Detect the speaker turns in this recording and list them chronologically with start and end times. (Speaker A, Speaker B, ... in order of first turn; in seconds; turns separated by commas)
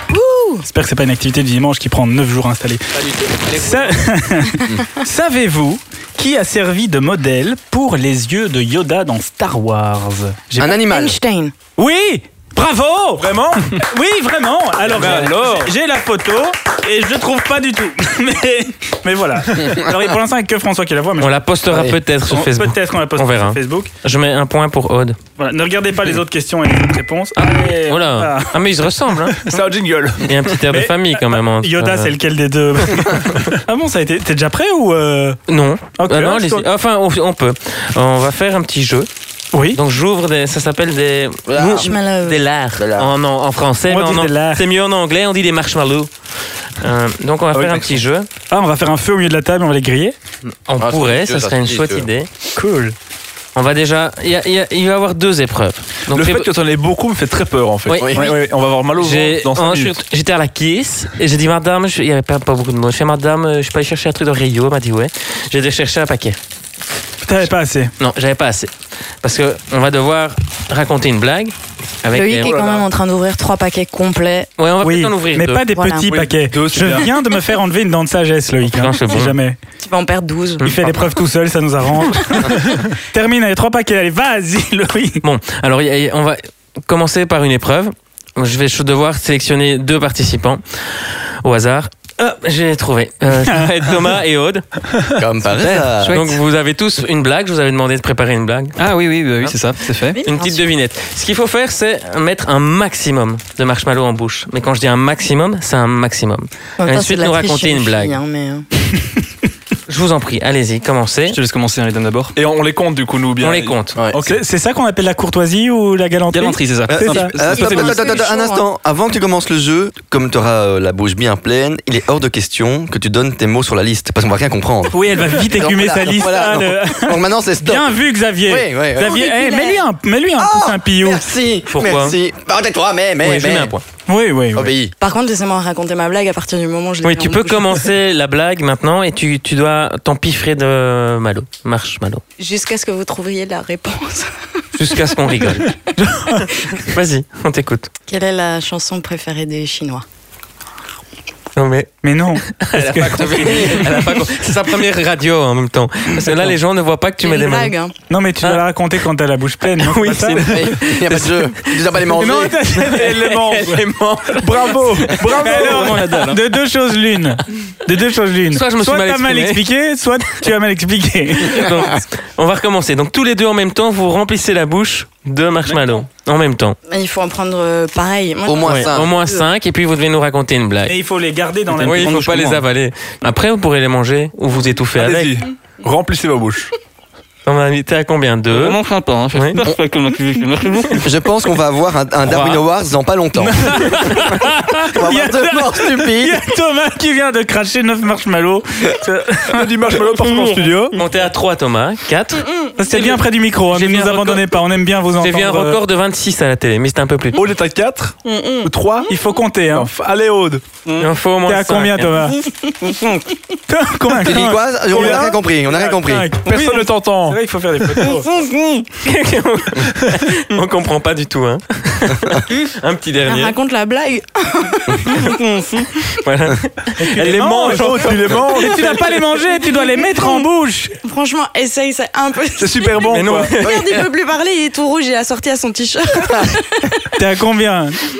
Speaker A: 0.1-0.6, Speaker B: 0.7-2.9, Speaker C: 3.0-3.9, Speaker B: 3.5-10.7, Speaker D: 10.6-11.2, Speaker A: 10.6-11.5, Speaker B: 11.8-21.4, Speaker E: 13.2-13.8, Speaker E: 14.8-15.7, Speaker C: 21.2-25.2, Speaker D: 21.7-22.0, Speaker B: 22.3-23.9, Speaker B: 25.4-28.6, Speaker C: 27.4-29.5, Speaker E: 29.4-30.4, Speaker C: 30.2-32.2, Speaker B: 30.7-35.4, Speaker C: 35.5-39.1, Speaker B: 36.0-36.7, Speaker B: 39.5-39.8, Speaker C: 39.7-46.1, Speaker D: 41.5-41.9, Speaker A: 41.8-42.4, Speaker D: 42.8-43.1, Speaker B: 43.9-44.6, Speaker C: 46.8-48.3, Speaker E: 47.5-48.0, Speaker B: 48.5-50.1, Speaker C: 50.5-52.3, Speaker D: 50.8-52.1, Speaker B: 52.6-53.0, Speaker C: 53.5-56.5, Speaker E: 56.1-60.0, Speaker C: 57.9-58.4, Speaker D: 58.0-58.3, Speaker C: 59.0-66.4, Speaker B: 67.2-67.9, Speaker C: 68.0-68.7, Speaker C: 69.2-72.8, Speaker A: 72.1-74.5, Speaker E: 72.5-72.7, Speaker C: 74.6-75.7, Speaker B: 74.8-79.6, Speaker A: 75.7-76.3, Speaker E: 76.3-77.1, Speaker C: 78.7-79.4, Speaker A: 79.8-80.8, Speaker B: 80.6-85.2, Speaker C: 85.2-94.7, Speaker D: 95.2-96.2, Speaker F: 95.6-96.4, Speaker C: 96.1-98.8, Speaker F: 98.8-100.2, Speaker A: 100.1-100.7, Speaker C: 100.2-108.2, Speaker A: 106.8-108.7, Speaker C: 109.9-111.4, Speaker F: 111.3-112.4, Speaker E: 112.4-114.4, Speaker C: 113.4-114.0, Speaker B: 114.2-117.3, Speaker F: 116.3-117.8, Speaker D: 116.9-129.2, Speaker E: 117.4-117.7, Speaker A: 117.5-118.6, Speaker B: 124.9-131.2, Speaker A: 129.0-129.8, Speaker D: 130.4-133.7, Speaker C: 131.7-132.2, Speaker C: 133.2-133.8, Speaker B: 134.1-134.7, Speaker D: 134.5-134.9, Speaker A: 135.0-137.9, Speaker C: 137.0-142.2, Speaker A: 142.4-144.3, Speaker C: 144.8-145.8, Speaker B: 146.0-146.5, Speaker C: 146.8-147.9, Speaker A: 148.1-150.1, Speaker C: 151.6-157.8, Speaker B: 152.0-153.8, Speaker D: 153.3-154.1, Speaker A: 157.2-157.9, Speaker B: 158.1-160.5, Speaker C: 159.8-165.2, Speaker D: 160.4-162.6, Speaker B: 162.1-163.5, Speaker E: 162.9-166.3, Speaker F: 165.2-166.4, Speaker B: 165.2-171.8, Speaker C: 168.5-169.6, Speaker C: 171.4-176.8, Speaker A: 176.9-179.4, Speaker D: 178.5-179.1, Speaker C: 178.6-180.9, Speaker B: 180.9-182.4, Speaker C: 181.8-185.3, Speaker F: 181.8-182.6, Speaker E: 184.9-186.7, Speaker C: 187.5-188.8, Speaker F: 188.5-191.1, Speaker C: 189.3-189.6, Speaker D: 191.0-194.2, Speaker C: 192.2-192.6, Speaker B: 193.4-199.9, Speaker D: 194.8-196.4, Speaker E: 199.5-201.0, Speaker C: 200.9-204.5, Speaker B: 202.8-205.8, Speaker C: 205.2-207.5, Speaker E: 207.3-209.1, Speaker A: 208.2-208.7, Speaker B: 209.1-209.9, Speaker E: 209.7-210.7, Speaker C: 211.0-212.2, Speaker B: 211.5-212.4, Speaker B: 213.7-218.3, Speaker D: 214.2-216.3, Speaker E: 214.9-215.2, Speaker E: 216.4-217.4, Speaker C: 219.0-223.6, Speaker A: 223.3-226.1, Speaker C: 226.2-228.5, Speaker B: 227.0-231.0, Speaker E: 227.2-229.2, Speaker A: 230.2-230.4, Speaker A: 231.0-237.1, Speaker E: 232.6-233.6, Speaker C: 233.0-234.1, Speaker B: 237.2-238.0